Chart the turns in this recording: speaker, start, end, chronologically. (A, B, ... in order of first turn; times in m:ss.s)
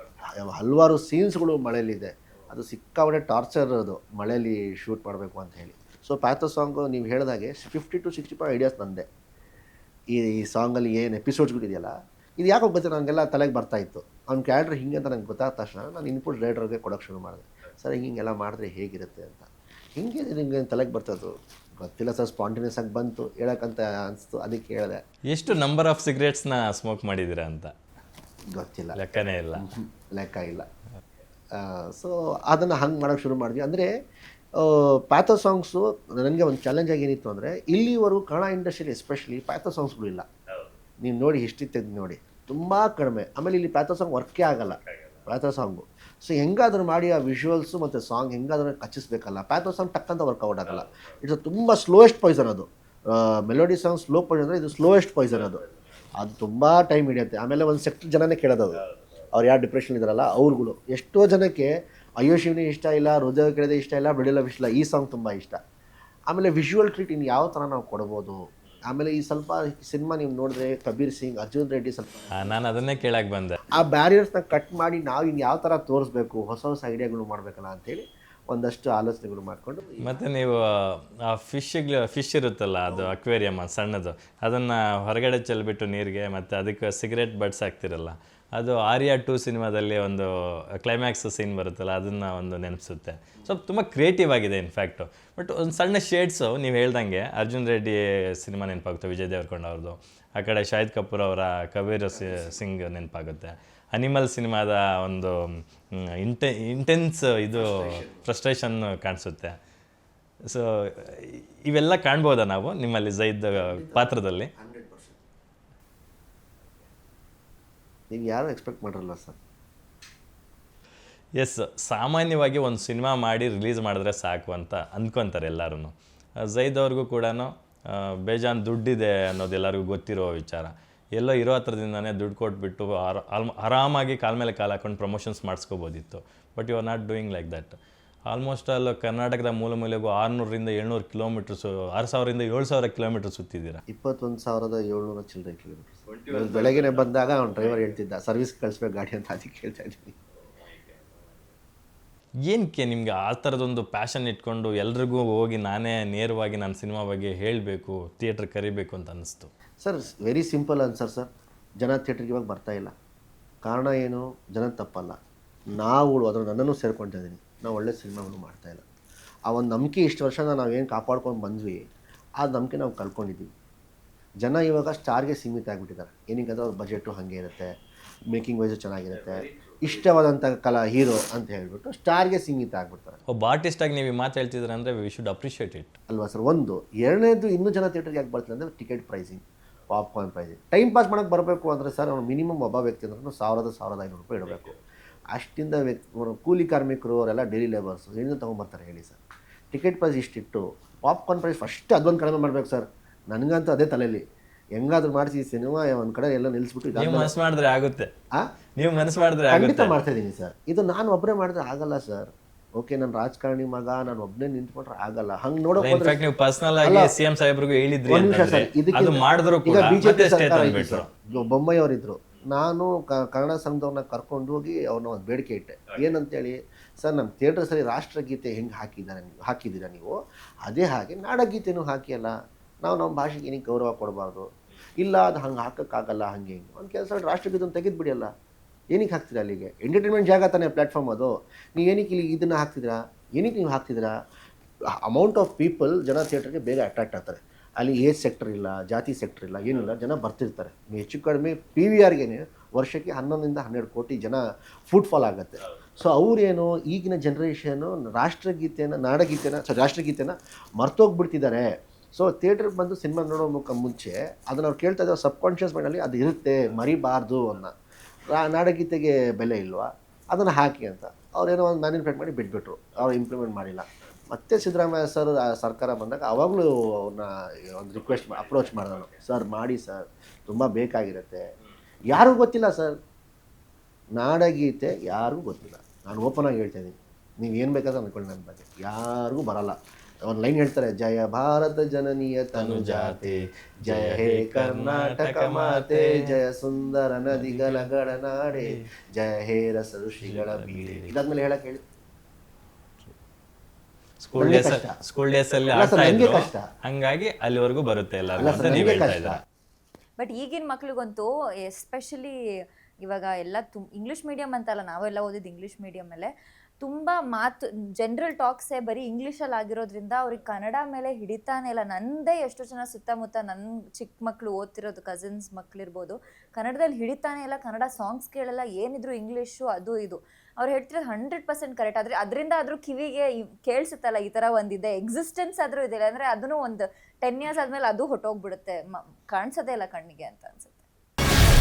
0:00.3-0:09.0 A
0:10.1-0:25.0 A
0:25.3-0:27.7 B
0:28.5-0:29.0 A
0:28.9-0:29.6 B
0:29.6-0:30.6 A
0:31.5-0:33.9 A
0:34.6-0:40.2 A
0:41.0-0:55.6 A
0:56.1-1:05.6 A
1:06.3-1:12.6 A
1:12.3-1:13.6 B
1:13.7-1:20.2 A
1:20.0-1:49.6 B
1:42.1-1:42.5 A
1:47.5-1:48.2 A
1:50.5-1:54.5 B
1:53.5-1:55.2 A
1:58.1-1:59.4 A
2:01.4-2:05.9 B
2:06.5-2:17.8 B
2:18.3-2:23.8 B
2:23.9-2:30.2 A
2:26.1-2:28.0 B
2:30.5-2:31.4 B
2:32.5-2:39.5 B
2:39.8-2:41.3 A
2:41.8-2:42.9 A
2:43.6-2:45.2 A
2:45.7-2:48.8 A
2:49.5-2:51.8 A
2:52.4-2:53.5 A
2:54.4-2:57.7 A
2:58.3-3:03.2 A
3:03.3-3:05.9 B
3:06.1-3:14.8 A
3:15.3-3:19.2 A
3:19.7-3:24.2 A
3:24.8-3:27.3 A
3:26.9-3:28.1 B
3:28.8-3:30.0 B
3:29.5-3:36.2 A
3:35.8-3:41.1 B
3:36.8-3:37.1 A
3:38.1-3:54.5 A
3:55.0-3:58.3 A
3:58.9-4:04.1 A
4:05.0-4:27.7 A
4:28.3-4:41.4 A
4:42.1-4:43.0 A
4:44.1-5:01.8 A
4:52.5-4:56.4 B
4:57.3-4:57.9 B
4:58.6-4:58.9 B
5:00.2-5:01.2 B
5:04.2-5:09.4 B
5:04.4-5:04.9 A
5:05.7-5:06.6 A
5:08.4-5:09.4 A
5:10.2-5:12.3 C
5:13.0-5:40.7 C